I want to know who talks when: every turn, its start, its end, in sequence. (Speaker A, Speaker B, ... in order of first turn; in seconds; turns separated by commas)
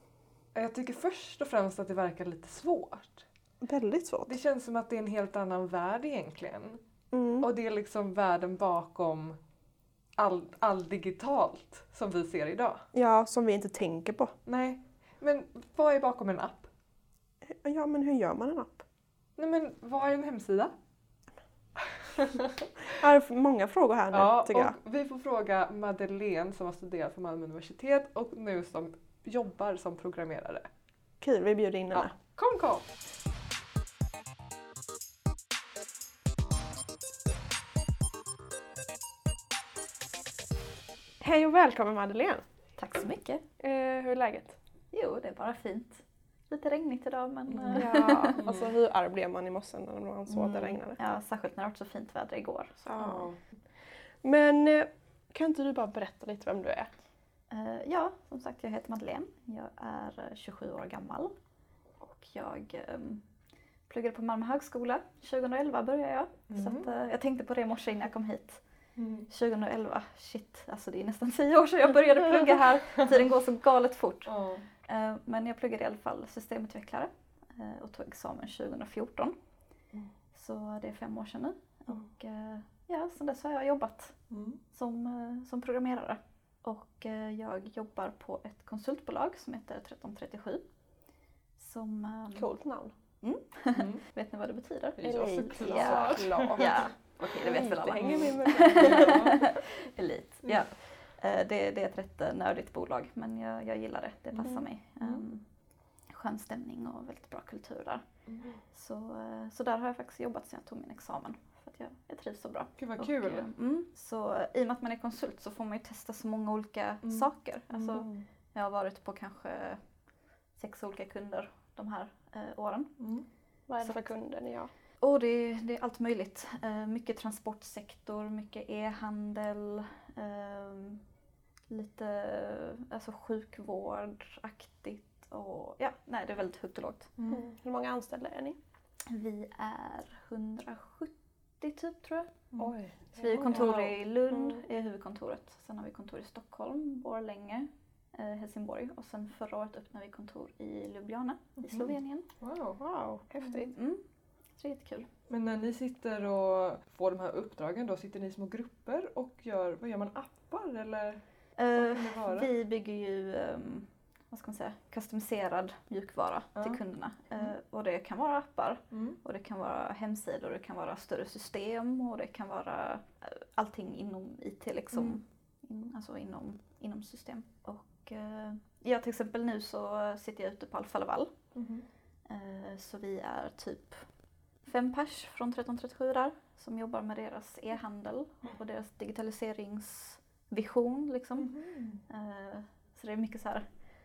Speaker A: 0.5-3.2, Speaker B: 3.6-4.4, Speaker A: 4.3-6.8, Speaker B: 7.1-7.5, Speaker A: 7.4-9.4, Speaker A: 10.2-12.9, Speaker B: 12.9-14.3, Speaker A: 14.4-16.7, Speaker B: 17.5-18.8, Speaker A: 19.4-20.7, Speaker B: 22.9-24.8, Speaker A: 24.1-30.7, Speaker B: 31.2-32.1, Speaker A: 31.9-33.0, Speaker B: 41.2-42.5, Speaker C: 42.8-43.4, Speaker B: 43.6-44.6, Speaker C: 44.9-48.4, Speaker A: 47.5-47.8, Speaker B: 47.7-51.0, Speaker A: 48.4-48.7, Speaker C: 50.3-53.1, Speaker B: 52.8-56.9, Speaker A: 53.0-53.4, Speaker C: 57.5-61.3, Speaker C: 62.0-63.2, Speaker C: 63.9-68.6, Speaker A: 66.5-66.9, Speaker A: 69.0-69.3, Speaker C: 69.3-79.3, Speaker A: 74.3-74.7, Speaker C: 80.3-84.2, Speaker A: 84.3-84.6, Speaker C: 84.7-90.7, Speaker C: 91.6-92.5, Speaker B: 92.3-92.9, Speaker C: 93.2-105.5, Speaker A: 93.8-94.0, Speaker A: 95.0-96.8, Speaker B: 95.0-99.4, Speaker A: 97.9-99.4, Speaker A: 105.0-105.3, Speaker C: 106.0-108.0, Speaker C: 108.7-119.9, Speaker A: 112.8-113.5, Speaker B: 117.8-118.2, Speaker C: 120.5-123.0, Speaker A: 123.0-123.3, Speaker B: 123.7-124.7, Speaker C: 123.8-124.1, Speaker C: 125.0-131.0, Speaker C: 131.7-137.1, Speaker A: 137.2-137.4, Speaker B: 137.3-138.6, Speaker C: 139.1-142.5, Speaker A: 142.6-143.9, Speaker C: 143.2-152.3, Speaker B: 143.3-144.6, Speaker A: 151.6-152.8, Speaker B: 152.8-153.7, Speaker C: 153.4-154.0, Speaker C: 154.6-155.1, Speaker A: 155.3-162.5, Speaker C: 161.6-181.4, Speaker A: 168.9-169.2, Speaker A: 174.9-175.2, Speaker A: 181.6-181.8, Speaker C: 182.3-184.1, Speaker C: 184.6-191.5, Speaker A: 191.4-192.0, Speaker C: 192.1-193.7